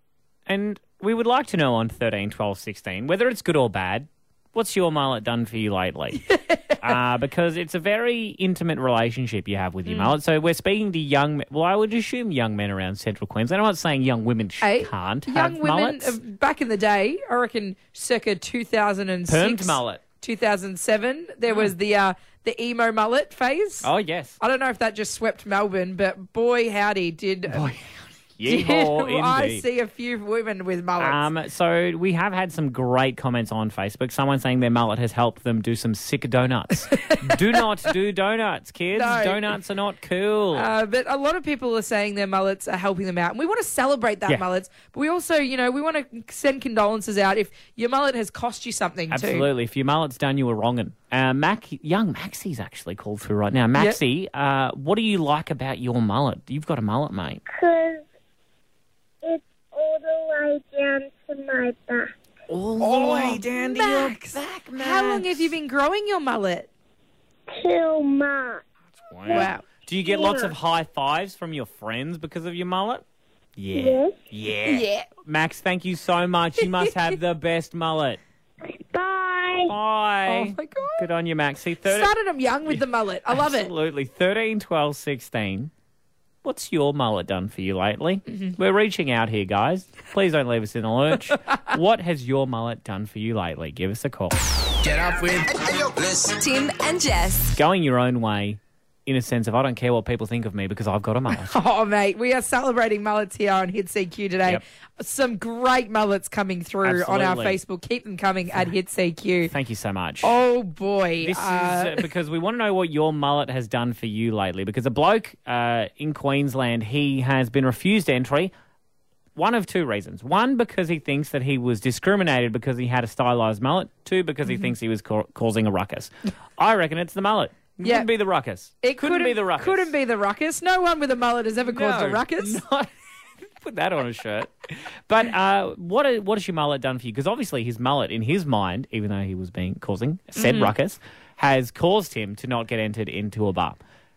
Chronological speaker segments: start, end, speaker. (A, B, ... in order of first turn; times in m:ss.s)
0:00.5-0:06.2 A
0:06.4-0:06.8 B
0:06.8-0:16.2 A
0:09.9-0:10.2 B
0:14.6-0:23.9 B
0:19.3-0:20.0 A
0:23.8-0:24.4 A
0:24.4-0:27.7 B
0:27.5-0:27.8 A
0:28.4-0:29.6 A
0:28.5-0:31.2 B
0:31.0-0:40.7 A
0:38.9-0:39.6 B
0:40.5-0:49.5 B
0:49.1-0:57.4 A
0:57.5-0:58.0 C
0:59.2-1:02.1 C
1:02.5-1:05.5 A
1:02.8-1:06.7 B
1:07.5-1:08.6 C
1:09.1-1:13.0 A
1:09.3-1:10.6 C
1:09.3-1:09.6 B
1:13.6-1:18.2 A
1:13.7-1:14.2 C
1:14.7-1:15.1 B
1:18.7-1:19.7 C
1:19.7-1:22.1 A
1:20.3-1:21.1 B
1:21.8-1:23.7 B
1:22.7-1:25.7 A
1:26.4-1:34.4 A
1:34.8-1:37.6 D
1:37.6-1:41.6 A
1:41.4-1:49.5 B
1:46.8-1:47.6 A
1:49.5-1:50.3 A
1:50.2-1:52.1 B
1:51.2-1:58.5 A
1:59.4-2:09.9 A
2:07.8-2:08.1 B
2:08.8-2:12.6 B
2:11.7-2:12.9 A
2:13.6-2:23.8 A
2:20.4-2:20.7 B